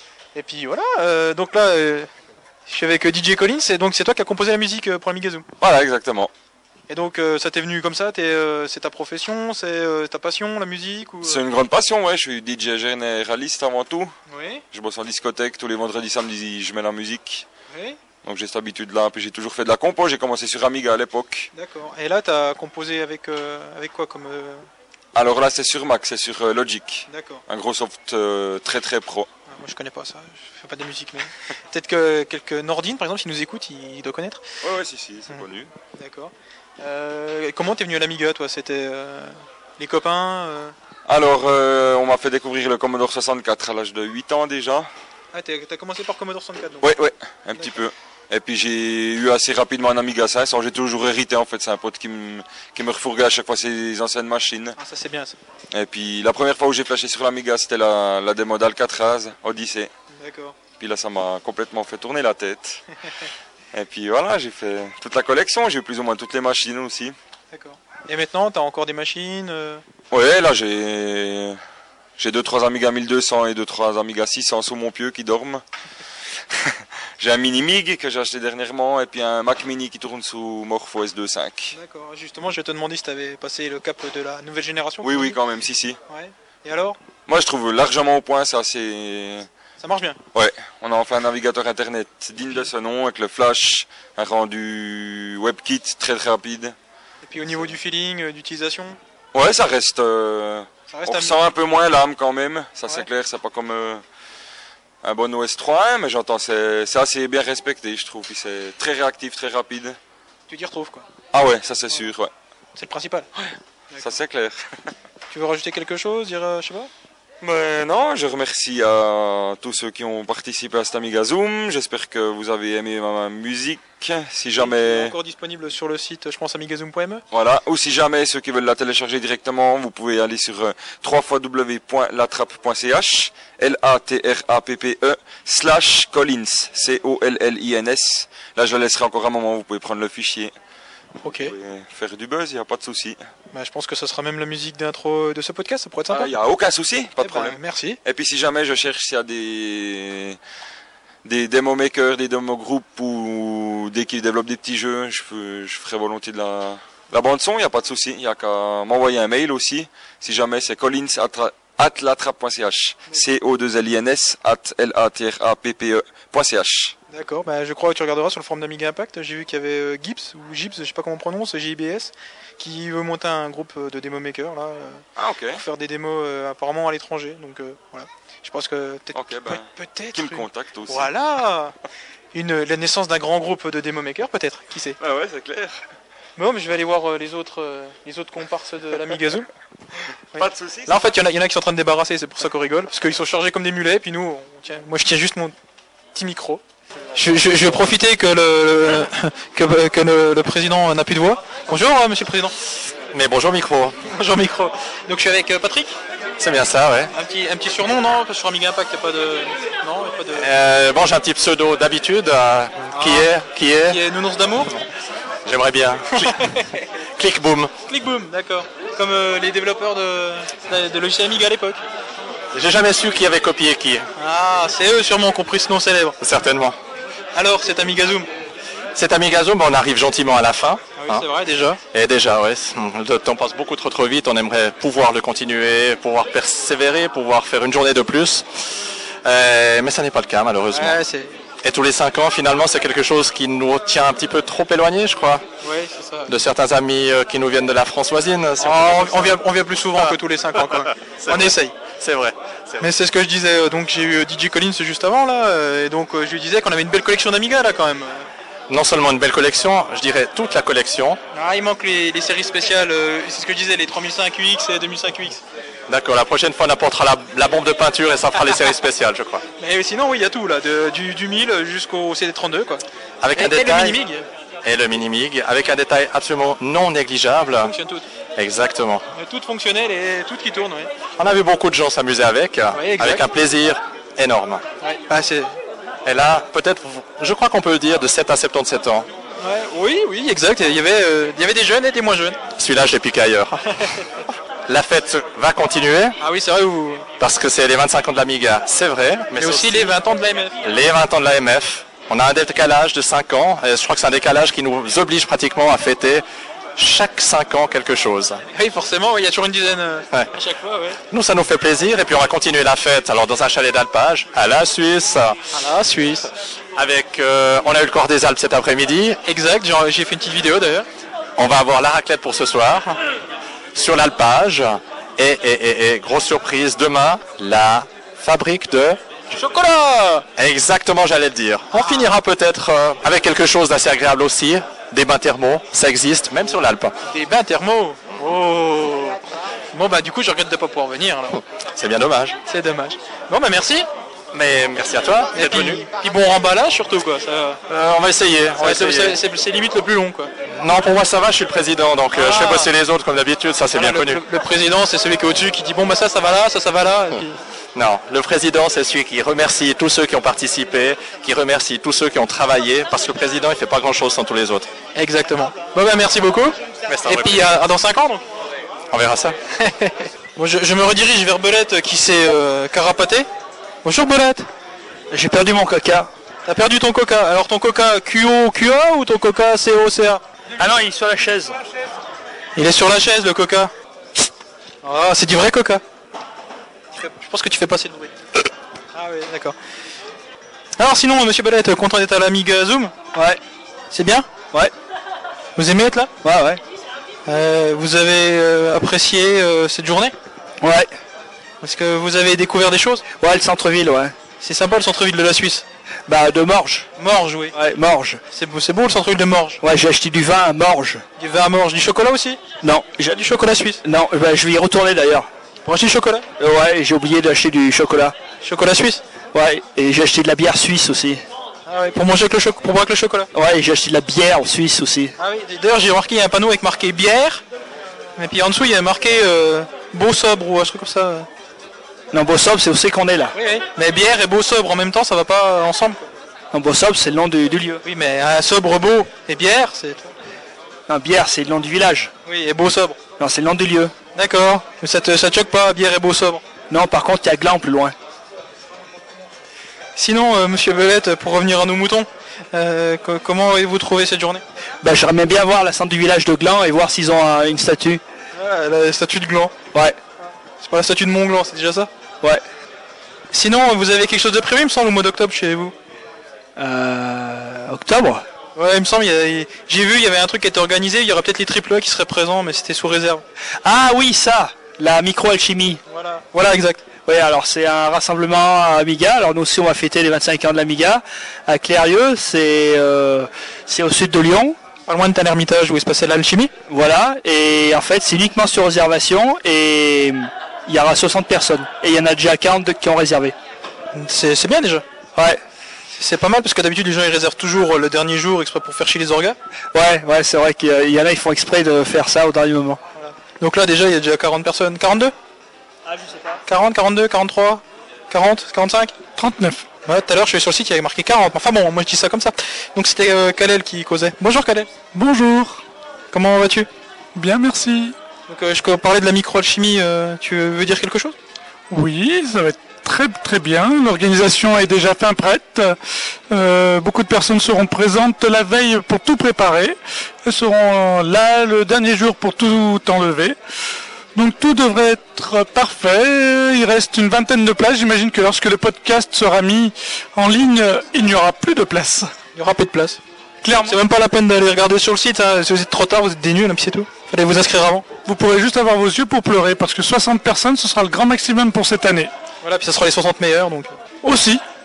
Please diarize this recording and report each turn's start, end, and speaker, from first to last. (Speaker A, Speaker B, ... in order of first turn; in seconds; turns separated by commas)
Speaker A: 0.3-2.1, Speaker A: 2.7-5.5, Speaker B: 5.6-6.3, Speaker A: 6.9-11.4, Speaker B: 11.2-14.1, Speaker A: 14.3-14.6, Speaker B: 14.7-17.5, Speaker A: 17.7-18.0, Speaker B: 18.2-21.5, Speaker A: 21.5-24.6, Speaker B: 25.1-29.3, Speaker A: 27.1-27.4, Speaker A: 29.5-34.4, Speaker B: 34.6-35.7, Speaker A: 35.3-40.7, Speaker B: 41.1-44.9, Speaker A: 45.3-46.9, Speaker B: 46.8-54.8, Speaker A: 54.8-55.4, Speaker B: 55.7-59.9, Speaker A: 60.1-60.5, Speaker B: 60.8-62.8, Speaker B: 63.7-67.2, Speaker A: 67.5-69.8, Speaker B: 70.1-71.6, Speaker B: 72.2-75.6, Speaker B: 76.5-81.8, Speaker A: 81.7-85.4, Speaker B: 85.0-86.0, Speaker A: 86.1-87.0, Speaker B: 87.3-89.5, Speaker A: 89.8-90.2, Speaker B: 90.3-96.8, Speaker A: 97.2-99.0, Speaker B: 99.3-104.0, Speaker A: 100.9-101.4, Speaker B: 105.0-110.0, Speaker A: 110.5-111.0, Speaker B: 111.3-112.3, Speaker A: 112.8-114.1, Speaker B: 114.0-114.6, Speaker A: 115.3-116.9, Speaker B: 117.4-125.1, Speaker A: 124.6-127.2, Speaker B: 127.3-140.5, Speaker A: 141.2-141.5, Speaker B: 141.3-143.2, Speaker A: 143.5-146.3, Speaker B: 146.1-150.4, Speaker A: 147.2-148.0, Speaker B: 151.2-166.9, Speaker A: 167.1-181.7, Speaker B: 175.2-175.6, Speaker B: 179.1-181.1, Speaker A: 182.3-185.0, Speaker B: 185.0-185.8, Speaker A: 186.4-189.5, Speaker B: 190.3-191.0, Speaker A: 190.4-195.5, Speaker A: 196.2-196.6, Speaker A: 197.2-202.6, Speaker C: 203.1-204.0, Speaker A: 204.1-206.0, Speaker C: 206.4-207.1, Speaker A: 207.1-210.5, Speaker C: 210.4-214.0, Speaker A: 212.9-213.3, Speaker A: 213.8-214.8, Speaker C: 215.4-216.4, Speaker A: 216.2-216.6, Speaker C: 217.2-217.7, Speaker A: 217.9-221.8, Speaker C: 222.5-224.1, Speaker A: 224.2-226.2, Speaker C: 226.2-226.8, Speaker A: 227.3-228.3, Speaker C: 228.9-231.2, Speaker A: 231.0-231.8, Speaker C: 231.9-238.4, Speaker C: 239.2-241.0, Speaker A: 240.7-241.3, Speaker C: 241.6-245.4, Speaker A: 245.6-246.3, Speaker C: 246.3-249.4, Speaker A: 248.6-251.7, Speaker C: 251.2-252.9, Speaker A: 252.8-258.3, Speaker C: 258.7-261.2, Speaker A: 261.3-265.4, Speaker C: 265.9-269.4, Speaker A: 269.6-272.8, Speaker C: 273.2-274.0, Speaker A: 273.4-274.3, Speaker C: 274.6-277.7, Speaker A: 277.6-278.0, Speaker C: 278.4-279.1, Speaker A: 279.1-280.9, Speaker C: 281.2-284.6, Speaker A: 282.7-283.2, Speaker A: 284.8-285.6, Speaker C: 286.1-289.1, Speaker A: 289.4-292.4, Speaker C: 292.6-293.5, Speaker C: 294.7-296.2, Speaker A: 296.2-297.1, Speaker C: 297.2-300.0, Speaker A: 299.4-300.6, Speaker C: 300.6-306.2, Speaker C: 306.8-308.4, Speaker A: 308.5-311.0, Speaker C: 311.1-315.4, Speaker A: 315.5-316.3, Speaker C: 316.8-319.2, Speaker A: 319.2-320.9, Speaker C: 321.4-323.0, Speaker C: 323.8-329.0, Speaker A: 329.3-330.3, Speaker C: 330.4-337.0, Speaker A: 331.7-332.1, Speaker A: 337.1-339.2, Speaker A: 339.7-341.4, Speaker C: 341.8-342.4, Speaker A: 342.5-343.9, Speaker C: 344.3-345.9, Speaker A: 345.3-347.6, Speaker C: 347.7-349.2, Speaker A: 348.6-350.3, Speaker C: 350.5-354.2, Speaker A: 352.1-352.7, Speaker A: 353.7-357.4, Speaker C: 357.8-364.7, Speaker A: 364.9-368.2, Speaker C: 366.9-367.5, Speaker C: 368.9-369.4, Speaker A: 369.6-373.3, Speaker A: 373.8-374.5, Speaker D: 375.1-376.1, Speaker A: 376.5-380.2, Speaker D: 380.6-381.6, Speaker A: 382.6-383.7, Speaker A: 384.8-385.8, Speaker A: 386.9-388.1, Speaker A: 388.9-389.6, Speaker A: 390.8-392.9, Speaker D: 393.1-393.4, Speaker A: 393.9-394.3, Speaker A: 395.6-396.1, Speaker D: 396.2-396.6, Speaker A: 397.3-400.1, Speaker D: 400.6-400.9, Speaker A: 401.6-403.1, Speaker D: 403.2-404.1, Speaker A: 404.4-405.7, Speaker D: 406.1-406.9, Speaker A: 407.0-407.6, Speaker D: 407.5-408.2, Speaker A: 408.3-409.6, Speaker D: 409.6-411.0, Speaker A: 411.2-412.4, Speaker D: 412.6-413.2, Speaker A: 413.1-413.8, Speaker D: 413.8-415.3, Speaker A: 415.6-416.3, Speaker D: 416.4-418.2, Speaker A: 418.4-419.0, Speaker D: 419.3-421.2, Speaker A: 421.7-423.3, Speaker D: 423.3-425.1, Speaker A: 425.2-427.4, Speaker A: 428.2-431.3, Speaker D: 432.1-433.3, Speaker A: 433.3-436.1, Speaker D: 436.5-437.8, Speaker A: 437.8-440.1, Speaker D: 440.9-442.1, Speaker A: 442.2-443.0, Speaker D: 443.2-443.9, Speaker A: 444.1-446.4, Speaker D: 446.7-447.9, Speaker A: 450.0-454.4, Speaker D: 454.8-458.0, Speaker A: 458.4-459.6, Speaker A: 460.6-461.9, Speaker A: 463.3-465.7, Speaker D: 466.6-468.2, Speaker A: 468.6-473.2, Speaker D: 473.6-475.8, Speaker A: 475.9-476.9, Speaker D: 477.0-484.6, Speaker A: 484.9-486.5, Speaker D: 486.7-493.4, Speaker A: 493.9-494.8, Speaker D: 495.2-495.4, Speaker A: 495.9-499.4, Speaker D: 499.7-502.8, Speaker A: 503.0-505.1, Speaker A: 506.5-508.9, Speaker E: 509.2-509.7, Speaker A: 509.9-514.7, Speaker E: 514.9-515.6, Speaker A: 516.1-516.7, Speaker E: 517.1-518.0, Speaker A: 518.3-521.2, Speaker E: 521.7-525.8, Speaker E: 526.3-533.4, Speaker E: 534.1-542.1, Speaker A: 542.4-543.0, Speaker E: 543.4-543.8, Speaker A: 543.6-547.9, Speaker E: 548.1-552.1, Speaker A: 552.4-553.7, Speaker E: 554.0-554.4